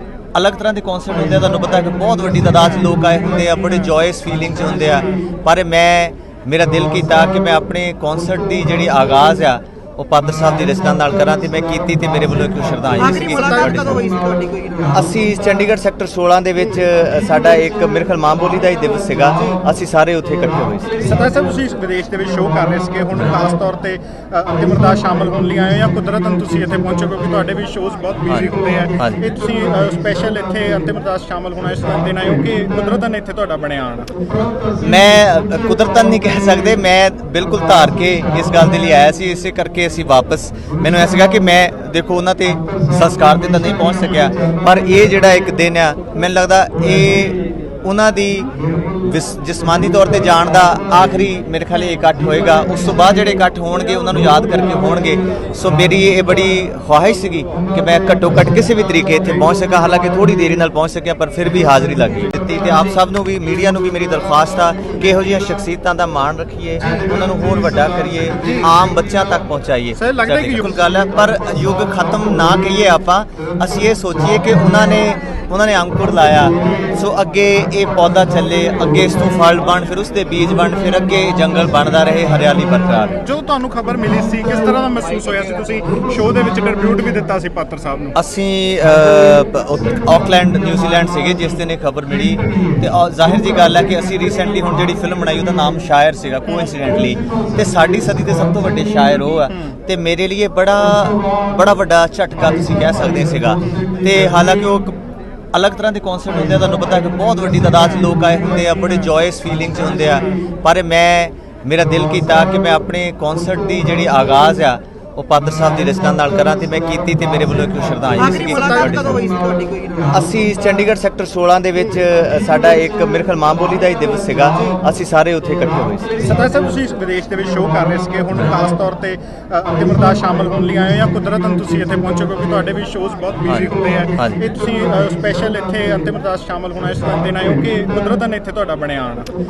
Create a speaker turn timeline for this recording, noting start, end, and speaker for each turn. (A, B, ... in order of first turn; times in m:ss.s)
0:00.3-0:14.0 A
0:13.0-0:15.1 B
0:13.4-0:13.8 C
0:14.9-0:21.0 A
0:21.0-0:34.1 C
0:28.3-0:29.2 A
0:34.8-1:23.2 A
1:08.4-1:08.7 C
1:09.9-1:10.8 C
1:23.2-1:28.1 C
1:28.1-1:45.0 A
1:39.5-1:39.8 C
1:45.5-1:59.2 A
1:58.2-2:00.3 B
2:00.1-2:06.1 A
2:06.2-2:19.3 C
2:13.5-2:14.4 A